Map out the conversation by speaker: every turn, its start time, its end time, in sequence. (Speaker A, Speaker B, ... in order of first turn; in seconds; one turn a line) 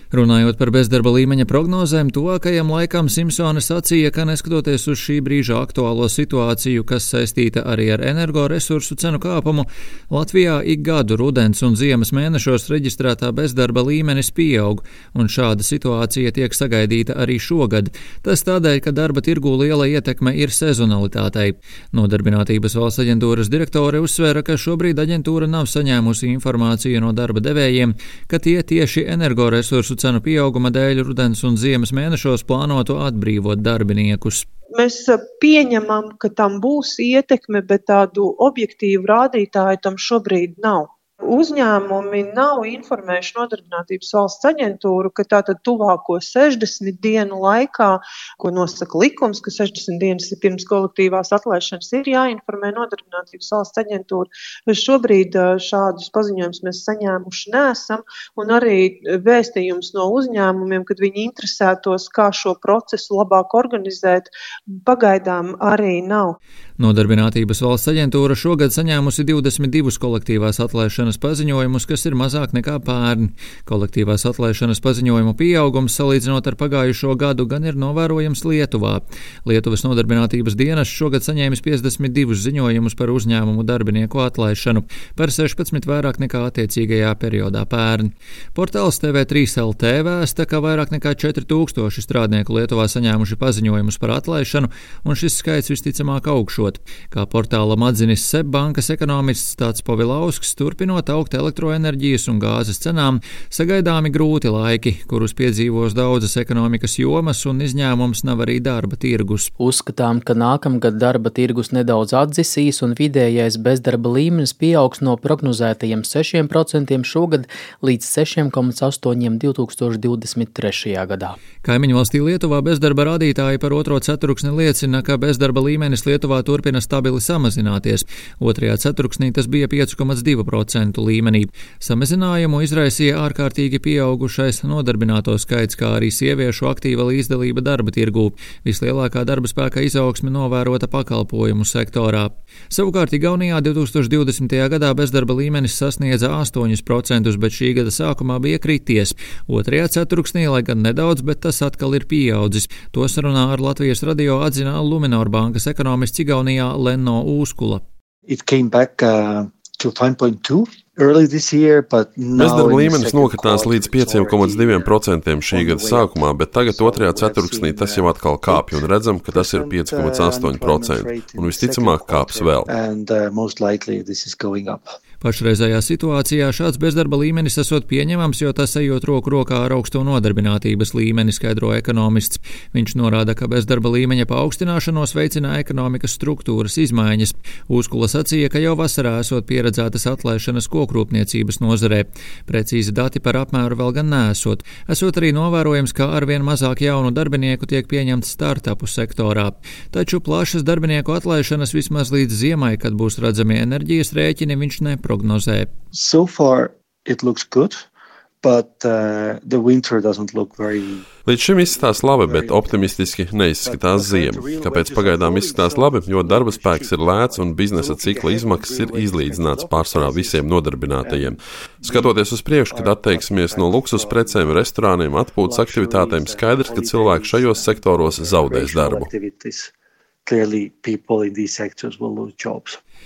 Speaker A: 0.1-34.5
Speaker B: 34.8-66.4
Speaker A: 66.8-109.5
Speaker C: 109.6-121.4
Speaker A: 121.6-157.8
Speaker D: 158.3-164.9
Speaker E: 162.3-172.7
Speaker D: 165.5-174.9
Speaker A: 175.2-205.7
Speaker D: 205.9-207.8
Speaker D: 208.4-224.7
Speaker E: 211.2-229.1
Speaker D: 225.4-229.7
Speaker D: 230.2-232.8